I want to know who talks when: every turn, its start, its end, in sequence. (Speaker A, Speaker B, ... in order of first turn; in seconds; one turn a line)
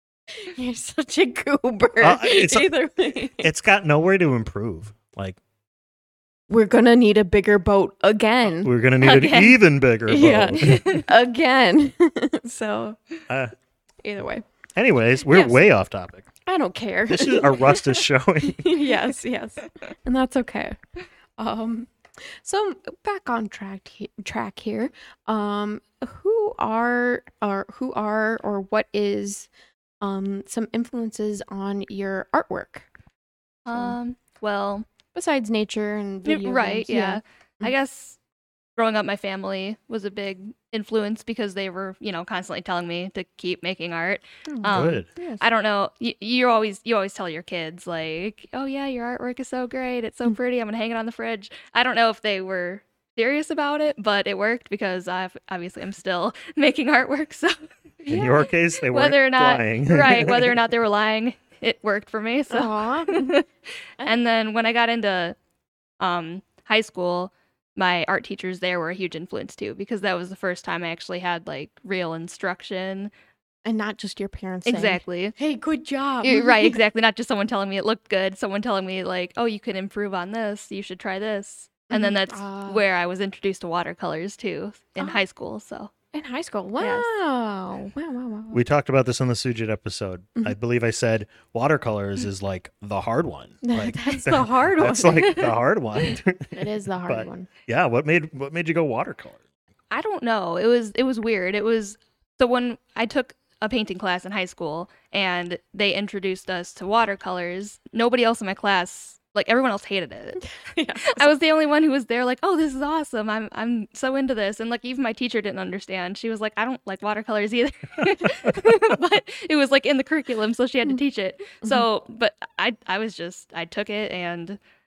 Speaker A: 0.3-3.5
Speaker B: 2.0-2.8
Speaker B: 3.3-5.4
Speaker A: 6.5-9.3
Speaker B: 8.6-11.0
Speaker C: 9.0-9.6
Speaker A: 10.1-13.0
Speaker B: 13.3-13.5
Speaker A: 14.0-14.4
Speaker B: 14.8-16.3
Speaker A: 15.3-15.6
Speaker A: 16.4-20.8
Speaker B: 17.1-18.8
Speaker A: 21.4-29.5
Speaker A: 30.0-32.9
Speaker C: 33.6-34.9
Speaker A: 33.7-34.0
Speaker A: 35.1-37.7
Speaker C: 36.2-38.2
Speaker C: 38.8-63.4
Speaker A: 44.5-45.4
Speaker B: 44.7-45.1
Speaker B: 58.1-60.6
Speaker A: 62.5-63.4
Speaker C: 64.0-65.3
Speaker C: 66.0-73.1
Speaker A: 73.6-76.8
Speaker C: 74.7-75.3
Speaker C: 76.2-85.9
Speaker A: 81.9-82.8
Speaker A: 86.1-88.6
Speaker C: 86.8-87.1
Speaker B: 88.5-99.4
Speaker A: 93.6-95.6
Speaker A: 96.5-97.5
Speaker C: 99.9-110.5
Speaker A: 110.5-111.3
Speaker C: 111.0-124.6